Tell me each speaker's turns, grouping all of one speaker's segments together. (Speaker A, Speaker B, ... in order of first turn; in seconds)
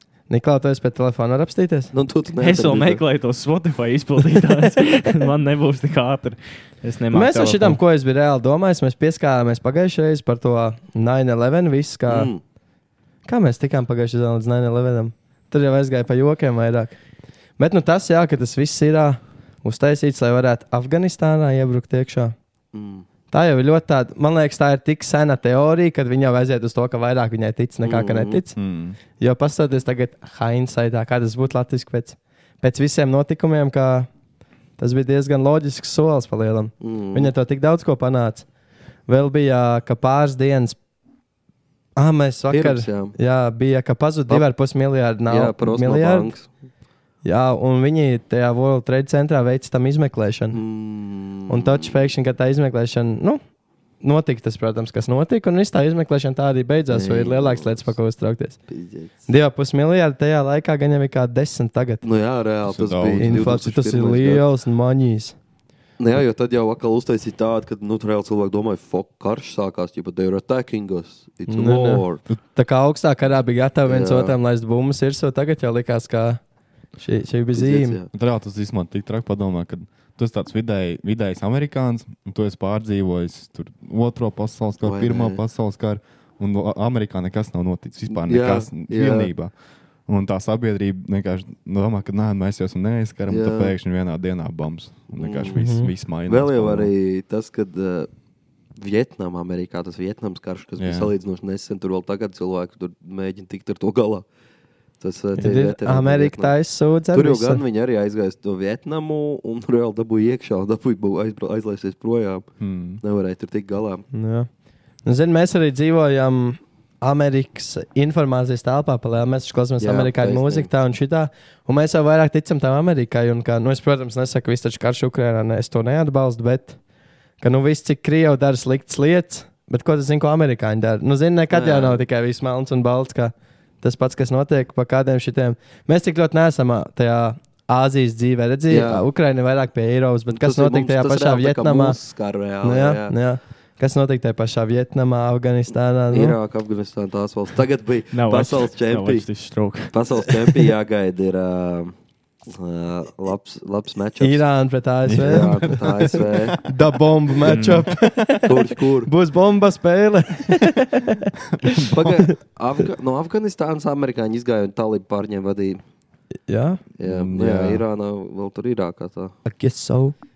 Speaker A: 0.3-1.9, 7.1-12.3, 13.2-17.0, 17.6-22.3, 23.3-28.6, 29.2-34.1, 34.8-38.5, 39.1-40.8, 42.0-46.3, 47.2-50.6, 51.5-53.4, 54.0-58.6, 59.3-62.0, 63.2-65.3, 71.5-76.4, 77.0-78.0, 95.6-95.9, 105.4-107.6, 114.1-114.5, 115.0-126.8, 127.4-142.0, 142.6-146.4, 154.2-155.7, 156.6-161.3, 166.5-166.8, 169.4-170.1
Speaker B: 1.9-3.0, 12.1-12.4, 22.7-23.1, 27.8-28.4, 36.8-37.3, 42.5-43.1, 45.3-46.5, 50.5-52.0, 56.9-57.9, 58.7-59.2, 62.0-64.5, 66.0-72.2, 73.8-74.3, 77.5-78.1, 84.8-85.4, 88.1-89.3, 93.3-93.7, 95.2-95.7, 96.2-98.1, 98.8-104.2, 105.0-106.5, 107.1-112.5, 113.0-114.0, 119.8-120.7, 131.5-132.0, 138.7-139.0, 140.3-143.1, 146.1-149.2, 149.9-151.9, 152.5-154.4, 155.2-156.6, 158.4-159.1, 161.9-165.8, 167.0-169.3
Speaker C: 2.4-7.8, 148.1-150.3, 157.4-157.9
Speaker D: 28.6-29.0, 62.6-63.5, 78.1-89.5, 90.0-96.9, 100.8-101.1, 112.6-113.0, 155.0-156.7, 161.7-162.2, 167.0-167.8